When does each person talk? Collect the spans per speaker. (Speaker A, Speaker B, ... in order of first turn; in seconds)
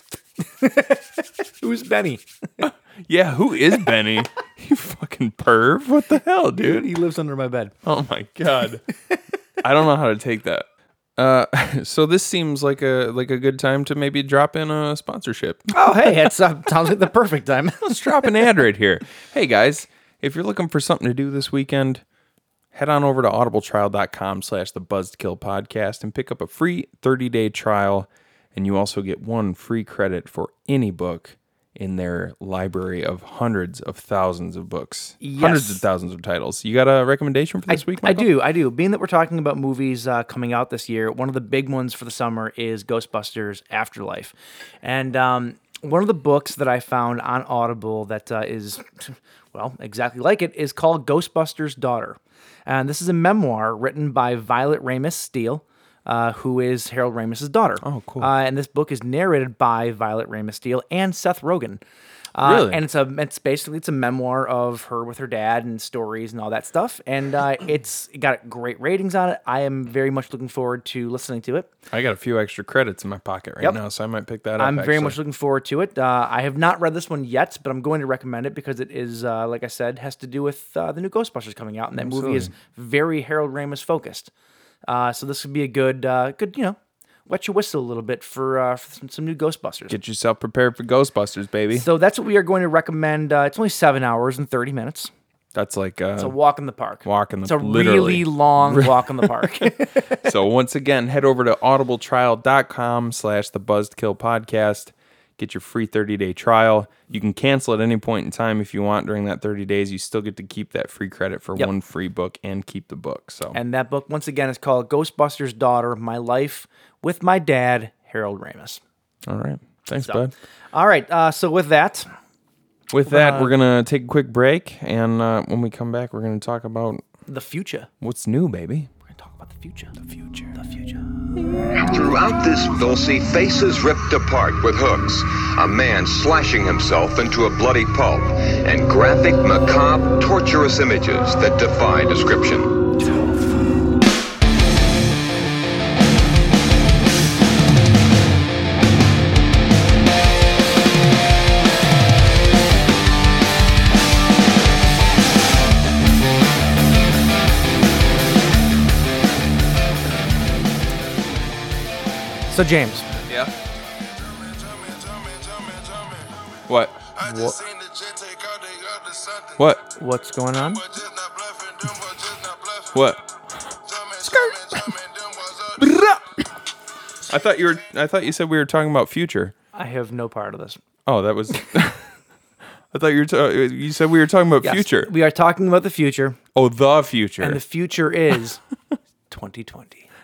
Speaker A: 0.4-2.6, 6.6-7.7, 15.7-18.5, 35.2-35.8, 37.7-61.8, 62.3-71.7, 74.6-84.3, 84.9-90.0, 91.7-95.1, 96.2-100.3, 113.5-118.8, 120.0-122.1, 123.0-123.5, 127.3-127.9, 129.1-129.9, 130.5-131.0, 162.5-163.1, 167.2-167.7, 169.9-170.9, 179.7-180.8, 184.6-186.4, 187.4-188.6, 189.3-190.1
Speaker B: 2.6-6.9, 7.8-8.8, 9.6-16.1, 17.8-22.0, 22.7-38.3, 57.8-58.3, 62.4-62.8, 71.9-75.2, 82.0-82.5, 89.9-91.8, 95.5-96.3, 97.0-99.6, 100.2-113.6, 119.2-120.3, 122.9-127.0, 128.0-128.9, 130.0-130.5, 166.7-167.1, 169.4-169.8, 171.8-175.0, 175.5-176.0, 177.3-179.5, 181.1-182.2, 182.9-185.1, 186.5-187.6
Speaker C: 131.8-142.7